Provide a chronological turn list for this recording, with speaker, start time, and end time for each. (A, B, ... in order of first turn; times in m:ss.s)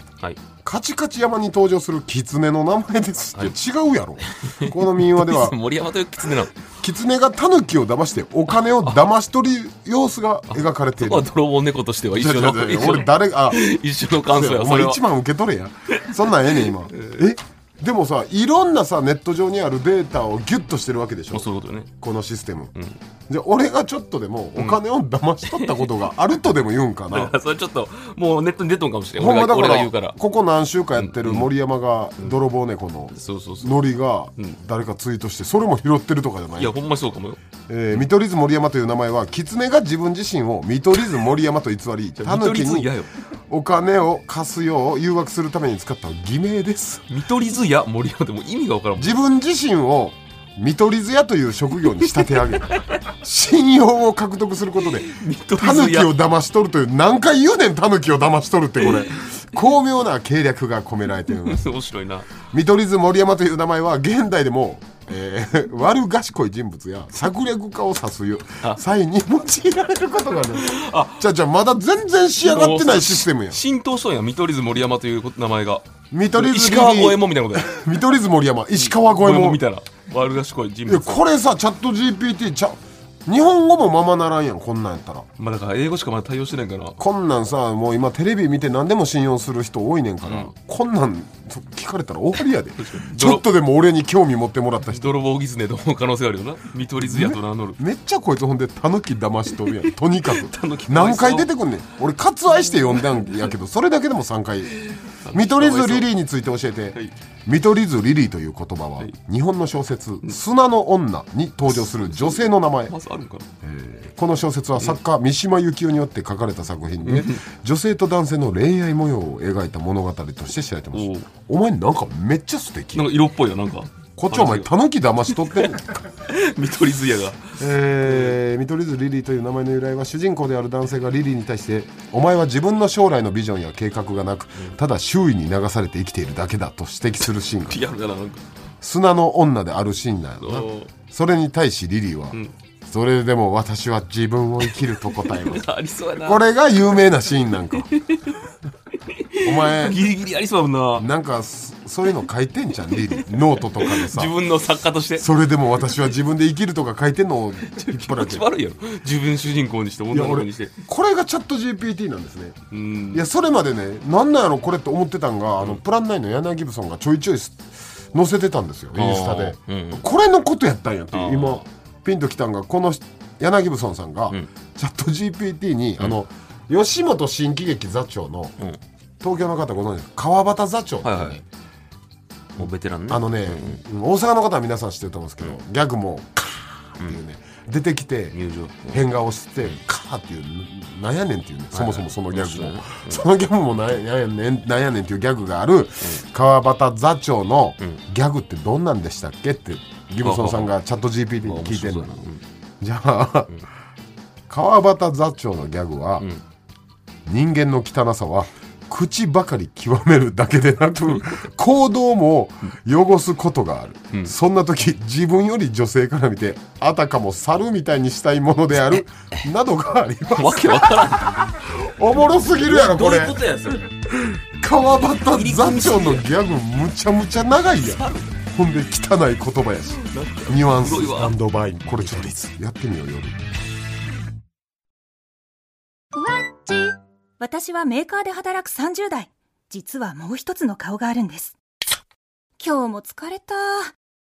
0:00.6-0:05.6 A
0:04.3-0:06.6 B
0:06.8-0:11.3 A
0:10.5-0:15.0 B
0:12.1-0:13.7 A
0:14.3-0:21.5 A
0:15.9-0:17.2 B
0:21.3-0:21.9 B
0:22.0-0:22.7 A
0:23.3-0:27.4 A
0:25.5-0:25.9 B
0:27.1-0:30.2 B
0:29.2-0:36.8 A
0:31.0-0:31.5 B
0:33.1-0:33.8 B
0:36.6-0:37.4 B
0:37.7-0:42.9 A
0:42.2-0:43.1 B
0:43.5-0:47.1 A
0:47.1-0:49.2 B
0:49.0-1:01.7 A
0:52.0-0:52.8 B
0:54.8-0:56.1 B
0:58.8-0:59.4 B
1:01.3-1:02.3 B
1:02.5-1:13.6 A
1:10.6-1:11.2 B
1:12.4-1:17.7 B
1:16.1-1:19.6 A
1:18.8-1:21.2 B
1:20.9-1:25.3 A
1:25.4-1:27.0 B
1:27.0-1:35.1 A
1:30.2-1:30.5 B
1:32.8-1:33.4 B
1:34.9-1:37.8 B
1:37.0-1:44.8 A
1:39.7-1:41.5 B
1:42.9-1:43.5 B
1:44.8-1:46.1 B
1:45.3-1:52.9 A
1:51.7-1:53.5 B
1:53.6-2:03.1 A
1:57.0-1:57.4 B
2:00.9-2:01.3 B
2:02.9-2:04.7 B
2:04.2-2:06.1 A
2:06.2-2:08.4 B
2:07.6-2:17.8 A
2:17.7-2:18.5 B
2:18.8-2:25.6 A
2:20.4-2:20.9 B
2:25.0-2:26.4 B
2:26.2-2:27.9 A
2:27.8-2:28.4 B
2:29.0-2:31.1 B
2:29.4-2:30.0 A
2:31.0-2:34.3 A
2:33.8-2:35.2 B
2:35.2-2:38.5 A
2:37.6-2:40.7 B
2:40.1-2:42.6 A
2:42.7-2:43.2 B
2:43.1-2:58.6 A
2:49.0-2:50.0 B
2:51.1-2:51.7 B
2:59.2-3:01.4 A
3:01.0-3:01.4 B
3:02.6-3:03.8 B
3:02.6-3:08.4 A
3:08.3-3:09.0 B
3:08.9-3:22.2 A
3:11.7-3:13.2 B
3:20.2-3:20.7 B
3:21.4-3:22.4 B
3:22.8-3:23.6 A
3:24.5-3:26.3 A
3:27.3-3:43.4 A
3:31.1-3:31.4 B
3:40.3-3:41.5 B
3:42.6-3:43.9 B
3:44.1-3:53.4 A
3:45.3-3:46.3 B
3:47.8-3:48.3 B
3:49.9-3:51.4 B
3:56.2-4:01.6 C
4:02.6-4:03.9 C